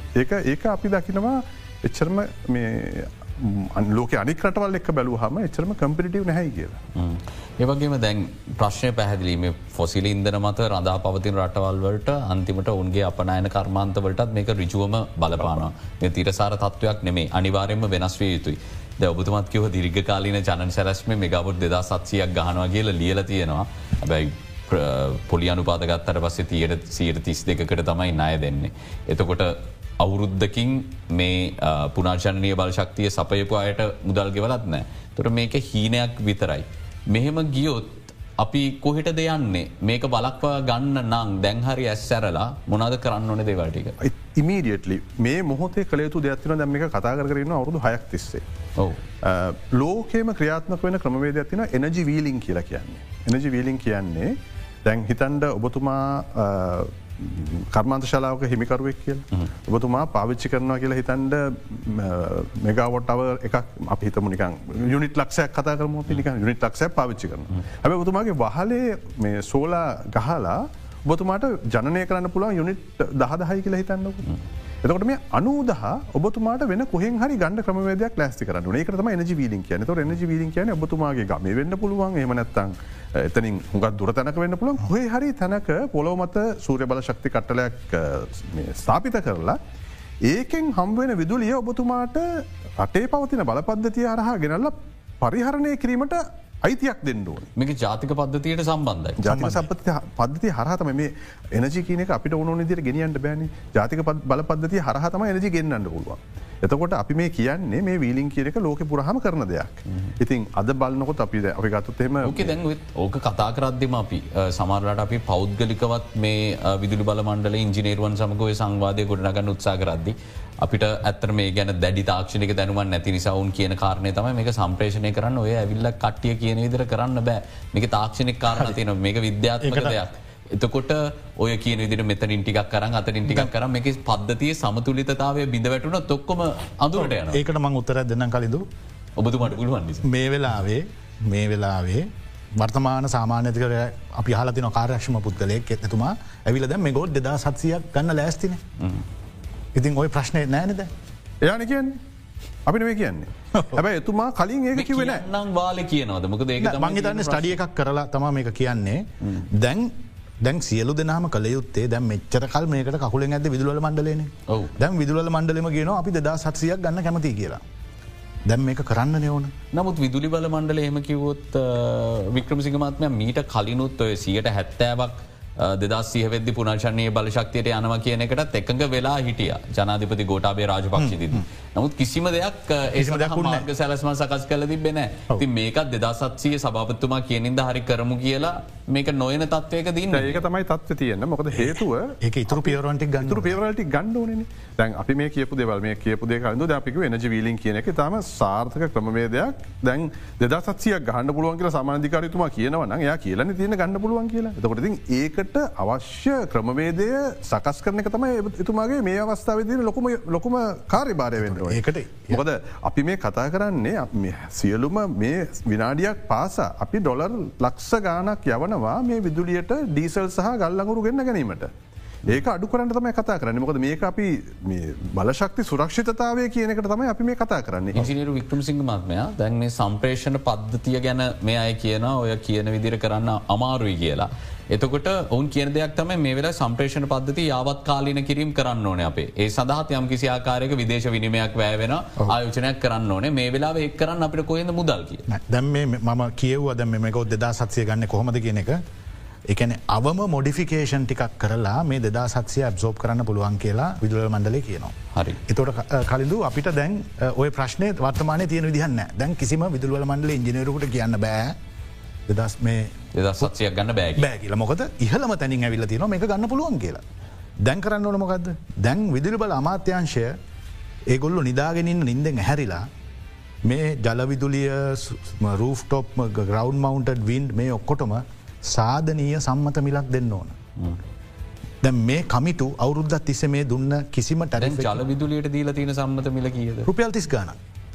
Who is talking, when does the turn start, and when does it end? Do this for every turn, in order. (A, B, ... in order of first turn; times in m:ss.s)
0:00.2-0:06.8 A
0:06.9-0:44.0 B
0:44.0-0:48.4 A
0:49.2-0:54.3 A
0:54.8-1:29.6 A
1:30.2-1:37.5 A
1:37.6-1:39.5 B
1:39.2-1:52.5 A
1:39.3-1:39.7 C
1:52.2-2:17.4 B
2:09.6-2:10.0 C
2:17.0-2:18.6 C
2:19.2-2:20.1 B
2:20.0-2:28.6 C
2:29.7-2:30.9 C
2:31.4-2:32.0 A
2:32.6-2:35.2 A
2:33.6-2:33.8 C
2:34.7-2:37.6 B
2:36.6-2:47.6 C
2:44.5-2:44.7 B
2:48.5-2:49.5 C
2:49.7-3:10.4 B
3:01.0-3:01.4 C
3:03.0-3:03.7 C
3:10.1-3:41.7 A
3:11.6-3:13.6 C
3:31.4-3:32.4 C
3:42.3-3:48.1 A
3:47.9-4:05.2 B
4:05.3-4:08.8 C
4:09.5-4:21.6 C
4:15.1-4:15.4 B
4:22.3-4:23.5 C
4:23.1-4:24.3 B
4:24.2-4:27.0 C
4:27.6-4:30.4 C
4:31.1-4:32.9 C
4:33.6-4:40.6 C
4:41.8-4:45.0 C
4:44.6-4:46.9 B
4:46.8-4:47.6 C